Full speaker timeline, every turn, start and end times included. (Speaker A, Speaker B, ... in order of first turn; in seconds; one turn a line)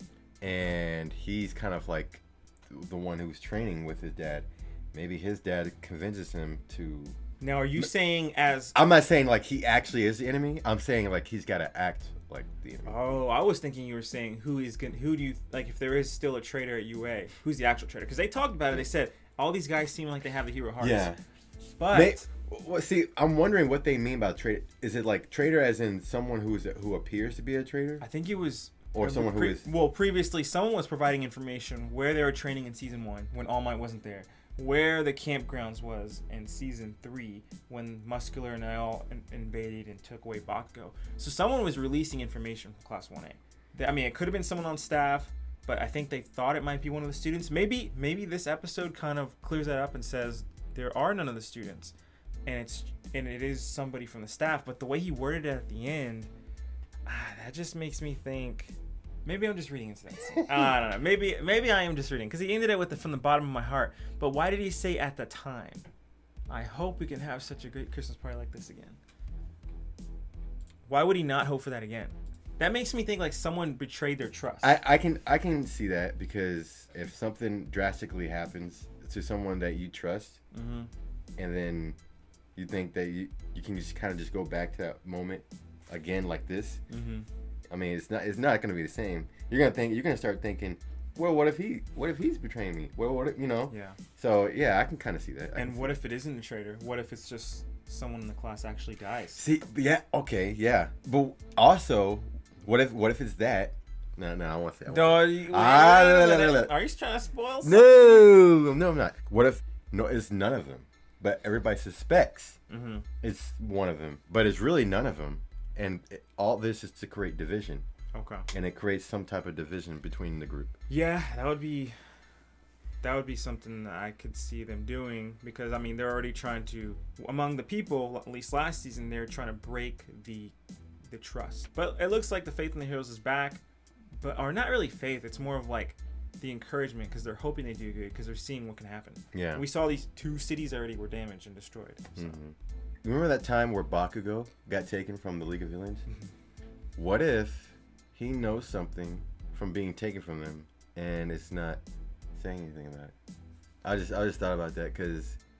Speaker A: 0.4-7.2
Speaker B: 7.4-8.7
Speaker A: 8.7-13.2
Speaker B: 12.8-21.1
Speaker A: 20.8-21.2
Speaker B: 21.8-22.2
Speaker A: 21.9-28.1
Speaker B: 28.0-51.9
Speaker A: 28.9-29.7
Speaker B: 52.5-56.3
Speaker B: 57.0-65.9
Speaker B: 66.5-69.0
Speaker B: 70.9-74.7
Speaker A: 74.6-80.4
Speaker B: 80.5-80.9
Speaker A: 81.4-82.0
Speaker A: 82.5-86.8
Speaker B: 86.9-87.3
Speaker A: 87.7-96.0
Speaker B: 93.7-94.0
Speaker B: 95.5-99.4
Speaker A: 99.3-106.7
Speaker B: 104.9-108.3
Speaker A: 107.6-112.6
Speaker B: 112.7-113.1
Speaker A: 113.2-117.8
Speaker B: 118.1-118.5
Speaker A: 118.5-120.7
Speaker B: 120.9-122.0
Speaker B: 123.0-130.5
Speaker B: 131.0-133.6
Speaker B: 134.2-142.3
Speaker A: 139.3-139.6
Speaker A: 142.2-146.1
Speaker A: 147.0-151.8
Speaker A: 152.3-153.1
Speaker A: 153.8-155.4